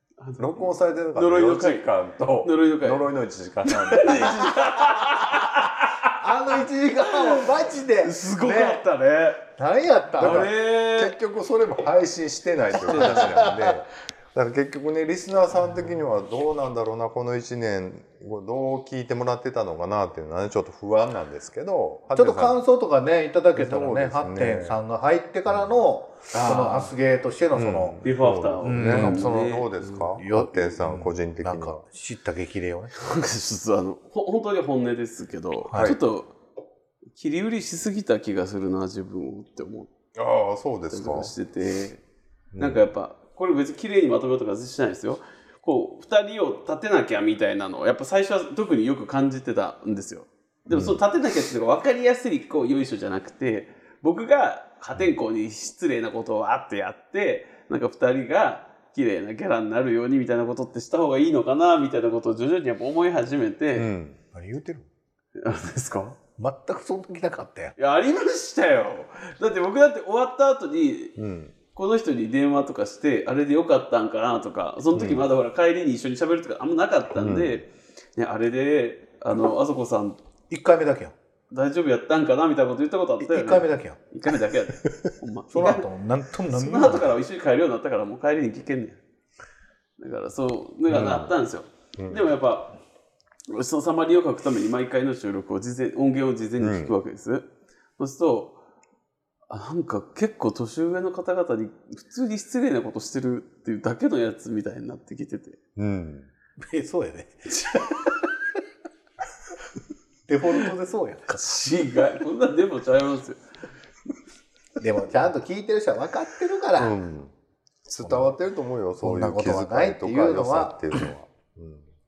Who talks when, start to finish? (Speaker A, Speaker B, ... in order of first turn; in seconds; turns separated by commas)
Speaker A: 0.2-1.9, Speaker B: 0.4-4.8, Speaker A: 2.4-3.1, Speaker A: 3.6-6.2, Speaker C: 6.2-8.8, Speaker A: 7.1-7.5, Speaker A: 8.0-9.5, Speaker C: 9.6-10.5, Speaker A: 10.2-11.2, Speaker B: 10.2-22.6, Speaker A: 12.7-13.2, Speaker C: 12.9-13.8, Speaker C: 22.1-28.0, Speaker B: 23.5-24.8, Speaker A: 26.3-26.9, Speaker B: 27.5-31.8, Speaker A: 28.0-30.1, Speaker C: 28.6-29.6, Speaker C: 30.1-32.9, Speaker A: 33.0-36.3, Speaker B: 35.7-36.0, Speaker A: 37.1-39.9, Speaker B: 40.1-41.3, Speaker A: 40.9-42.0, Speaker B: 42.5-42.9, Speaker A: 42.6-63.9, Speaker B: 50.7-51.0, Speaker B: 63.7-64.2, Speaker C: 64.3-64.9, Speaker A: 65.4-66.2, Speaker C: 66.4-67.7, Speaker A: 67.8-71.2, Speaker B: 71.2-71.5, Speaker A: 71.7-80.2, Speaker B: 74.9-75.2, Speaker B: 77.2-77.6, Speaker C: 80.5-81.1, Speaker A: 81.5-85.9, Speaker C: 83.2-84.0, Speaker C: 85.5-87.2, Speaker A: 86.5-89.0, Speaker A: 90.0-92.7, Speaker B: 90.9-91.3, Speaker B: 92.0-92.3, Speaker A: 93.5-98.6, Speaker B: 96.6-96.9, Speaker A: 99.5-105.6, Speaker B: 105.8-106.3, Speaker C: 106.6-108.1, Speaker C: 110.3-111.5, Speaker A: 111.4-113.4, Speaker C: 114.8-116.9, Speaker B: 116.8-117.3, Speaker B: 117.8-121.9, Speaker C: 118.0-118.3, Speaker C: 119.0-120.9